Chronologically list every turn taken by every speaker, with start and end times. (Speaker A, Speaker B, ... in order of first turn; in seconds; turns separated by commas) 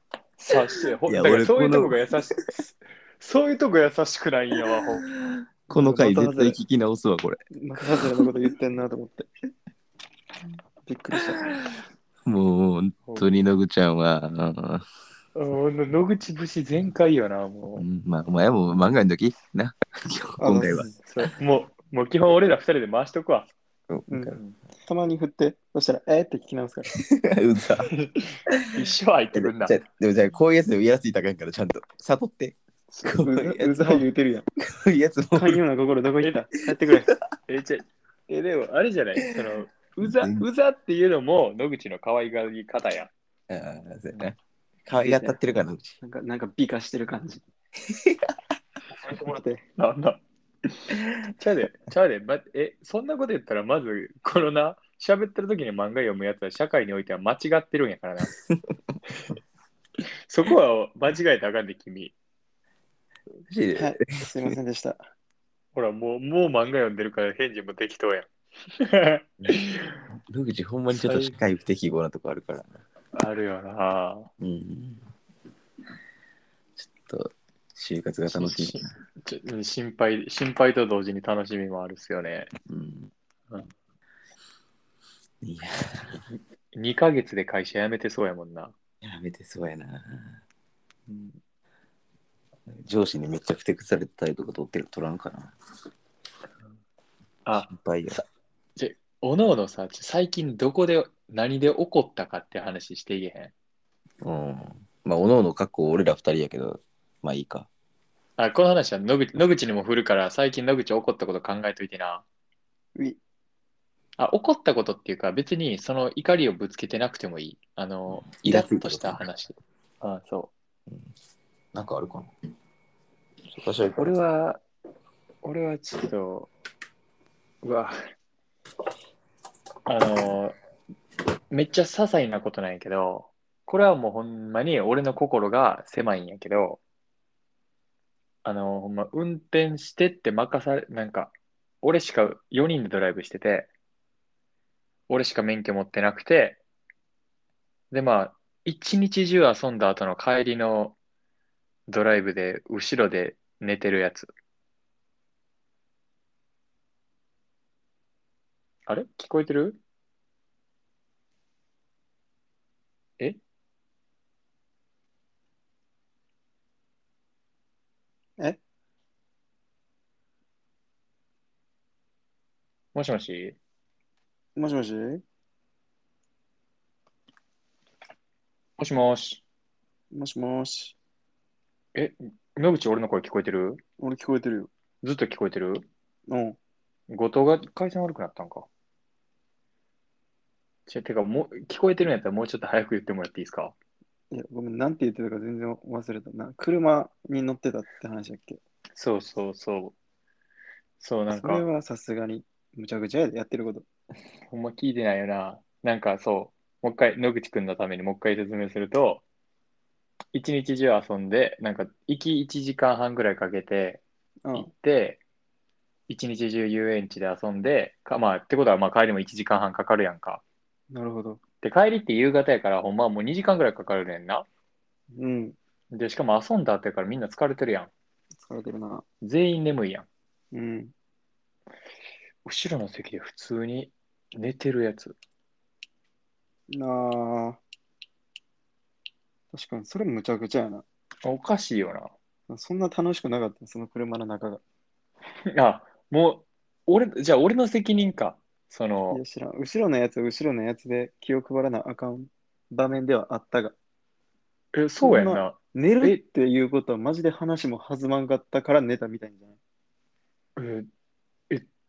Speaker A: 0.4-5.1, Speaker B: 1.1-2.4, Speaker B: 5.1-8.4, Speaker C: 5.7-6.6, Speaker C: 7.5-9.3, Speaker C: 10.8-11.5, Speaker B: 12.2-14.8, Speaker A: 13.0-13.3, Speaker A: 15.3-17.8, Speaker B: 17.8-20.9, Speaker C: 20.4-20.9, Speaker A: 20.7-23.5, Speaker B: 23.9-24.4, Speaker C: 24.1-26.9, Speaker B: 26.9-27.9, Speaker A: 28.0-29.8, Speaker B: 29.3-34.0, Speaker A: 32.9-33.2, Speaker C: 33.1-34.5, Speaker B: 34.7-35.6, Speaker C: 35.4-37.1, Speaker A: 37.5-43.1, Speaker B: 40.0-40.4, Speaker B: 43.5-44.3, Speaker B: 44.9-46.0, Speaker C: 44.9-45.4, Speaker C: 46.0-47.4, Speaker B: 47.9-48.3, Speaker C: 49.0-49.6, Speaker A: 49.8-50.2, Speaker A: 50.8-58.3, Speaker A: 60.3-62.1, Speaker B: 63.5-64.5, Speaker C: 63.7-65.0, Speaker A: 65.7-70.0, Speaker B: 70.3-72.8, Speaker A: 70.9-71.4, Speaker A: 73.1-74.3, Speaker B: 74.4-75.0, Speaker B: 76.8-78.8, Speaker A: 78.3-82.5, Speaker B: 82.7-83.1, Speaker B: 85.4-86.2, Speaker A: 86.3-88.7, Speaker B: 89.0-90.4, Speaker A: 91.1-91.4, Speaker B: 92.7-95.5, Speaker B: 97.5-98.2, Speaker A: 98.8-103.5, Speaker B: 104.2-107.7, Speaker A: 108.4-112.2, Speaker A: 114.2-120.5, Speaker B: 118.1-119.2, Speaker B: 121.7-122.3, Speaker B: 123.5-124.2, Speaker A: 124.0-124.6, Speaker A: 125.4-126.5, Speaker A: 127.6-128.0, Speaker A: 129.9-130.6, Speaker A: 131.5-136.8, Speaker A: 138.4-143.7, Speaker A: 145.1-146.6, Speaker A: 147.9-150.9, Speaker A: 151.9-154.3, Speaker A: 158.9-159.8, Speaker A: 172.9-173.6, Speaker C: 174.6-175.2, Speaker A: 178.8-179.4, Speaker C: 180.1-180.9, Speaker A: 181.9-183.8, Speaker C: 184.0-184.7, Speaker A: 185.0-185.8, Speaker C: 186.3-186.6, Speaker A: 187.1-188.7, Speaker A: 190.9-193.7, Speaker C: 194.3-198.6, Speaker A: 198.9-199.9, Speaker A: 201.0-201.6, Speaker C: 201.3-203.8, Speaker A: 204.5-209.2, Speaker A: 210.3-214.0, Speaker C: 214.4-214.7, Speaker A: 214.5-215.2, Speaker A: 216.1-220.4, Speaker C: 220.9-221.4, Speaker A: 221.6-224.4, Speaker C: 225.1-225.6, Speaker A: 225.9-227.9, Speaker C: 228.4-229.0, Speaker A: 229.2-230.1, Speaker C: 230.5-230.9, Speaker A: 232.4-235.2, Speaker C: 236.7-237.6, Speaker C: 239.5-240.8, Speaker A: 241.2-242.1, Speaker C: 242.5-244.6, Speaker A: 245.5-249.2, Speaker C: 249.1-253.7, Speaker A: 254.7-256.2, Speaker C: 255.0-259.6, Speaker A: 260.6-260.9